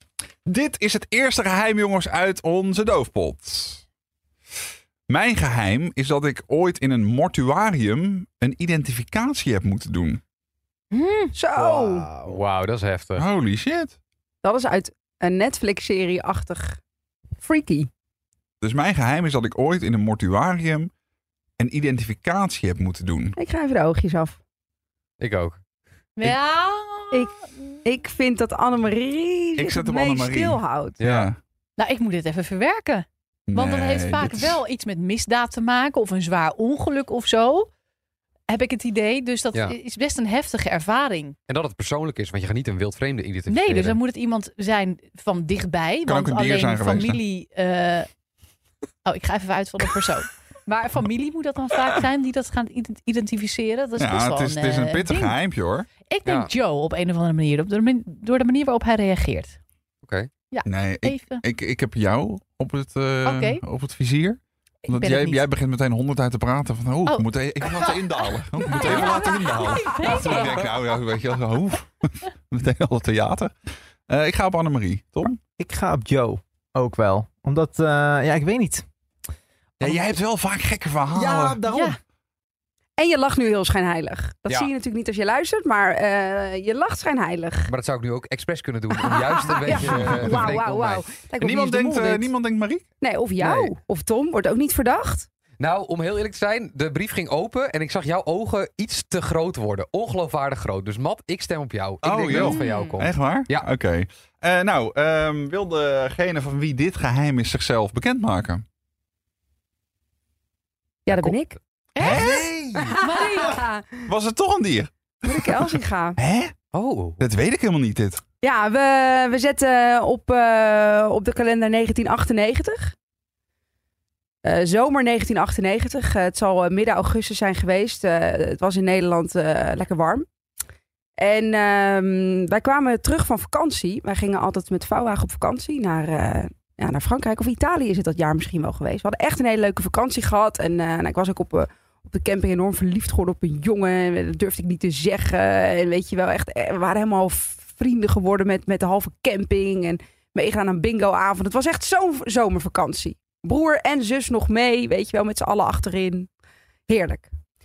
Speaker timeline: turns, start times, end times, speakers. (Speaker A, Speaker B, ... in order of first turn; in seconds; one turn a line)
Speaker A: 0.4-3.8
Speaker A: 5.1-10.2
Speaker B: 10.9-11.3
Speaker C: 11.3-12.1
Speaker D: 11.6-12.4
Speaker E: 12.2-13.2
Speaker A: 13.2-14.0
Speaker C: 14.4-16.8
Speaker C: 17.4-17.9
Speaker A: 18.6-20.9
Speaker A: 21.6-23.4
Speaker C: 23.4-24.4
Speaker E: 25.2-25.6
Speaker B: 26.2-27.3
Speaker C: 27.8-31.1
Speaker A: 29.6-31.4
Speaker E: 31.0-31.3
Speaker B: 31.8-37.7
Speaker A: 33.5-34.6
Speaker B: 38.5-41.4
Speaker E: 41.5-44.0
Speaker B: 43.5-48.1
Speaker A: 46.1-47.2
Speaker B: 49.0-55.4
Speaker A: 54.0-55.9
Speaker B: 56.0-59.6
Speaker E: 56.2-56.5
Speaker E: 60.0-60.3
Speaker B: 60.5-61.4
Speaker A: 60.6-73.5
Speaker B: 63.2-63.6
Speaker B: 64.8-65.5
Speaker B: 67.0-68.0
Speaker B: 68.7-70.7
Speaker C: 68.7-69.0
Speaker C: 69.8-70.2
Speaker A: 74.1-75.4
Speaker D: 75.6-78.8
Speaker A: 79.8-81.6
Speaker D: 81.1-82.0
Speaker B: 81.7-82.0
Speaker C: 83.0-87.7
Speaker E: 87.7-91.1
Speaker C: 89.0-92.3
Speaker A: 89.9-90.3
Speaker A: 91.4-92.9
Speaker C: 93.0-95.3
Speaker E: 93.4-93.8
Speaker E: 95.6-103.7
Speaker A: 102.0-108.6
Speaker B: 102.6-102.9
Speaker C: 111.0-111.6
Speaker B: 112.0-113.6
Speaker A: 112.0-112.9
Speaker C: 112.1-113.9
Speaker A: 114.1-116.5
Speaker C: 115.2-116.2
Speaker E: 116.7-117.2
Speaker A: 117.2-118.2
Speaker C: 118.4-122.9
Speaker C: 124.4-130.2
Speaker C: 131.2-156.3
Speaker C: 156.9-157.3